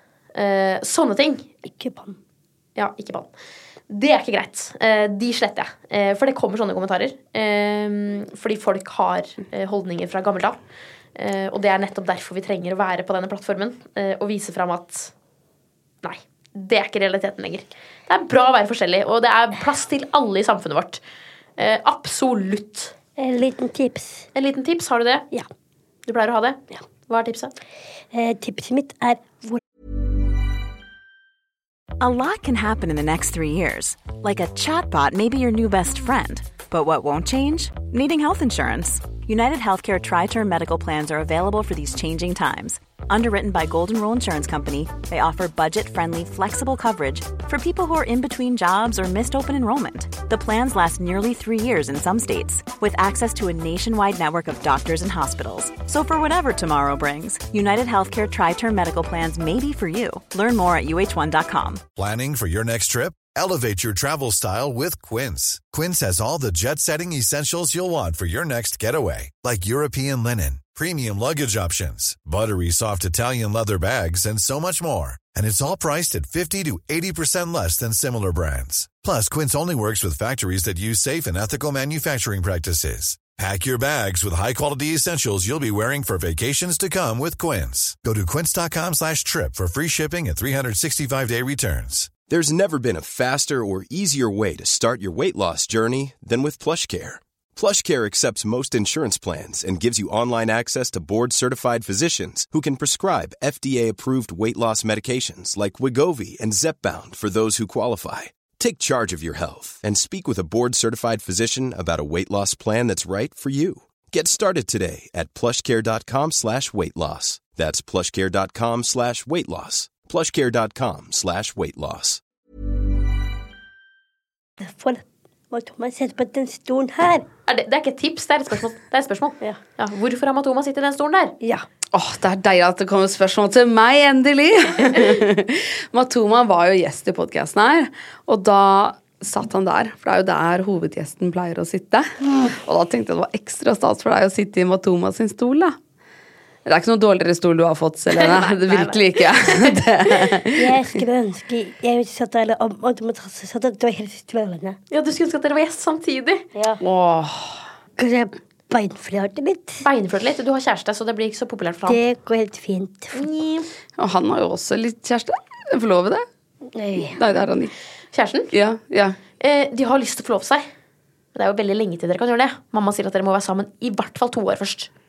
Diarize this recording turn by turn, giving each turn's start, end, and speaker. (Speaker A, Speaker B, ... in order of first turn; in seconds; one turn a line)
Speaker A: 0.3-1.4
Speaker B: 1.6-2.2
Speaker A: 2.8-3.3
Speaker A: 3.9-10.6
Speaker A: 11.2-15.1
Speaker A: 16.0-21.0
Speaker A: 21.6-22.9
Speaker B: 23.2-24.3
Speaker A: 24.3-25.3
Speaker A: 26.1-27.5
Speaker B: 28.1-29.6
Speaker C: 32.0-61.8
Speaker D: 61.9-92.1
Speaker E: 92.3-122.2
Speaker B: 124.6-127.2
Speaker A: 127.5-131.3
Speaker F: 131.9-145.8
Speaker F: 146.7-150.8
Speaker A: 148.1-150.2
Speaker B: 150.6-154.8
Speaker A: 154.9-156.4
Speaker B: 156.5-156.8
Speaker F: 156.8-157.6
Speaker B: 158.0-159.8
Speaker A: 159.8-162.0
Speaker B: 161.9-163.2
Speaker A: 163.1-163.7
Speaker F: 164.0-166.2
Speaker B: 166.7-167.2
Speaker F: 167.1-167.7
Speaker A: 168.1-168.5
Speaker F: 168.5-169.2
Speaker A: 169.4-170.7
Speaker A: 171.3-174.9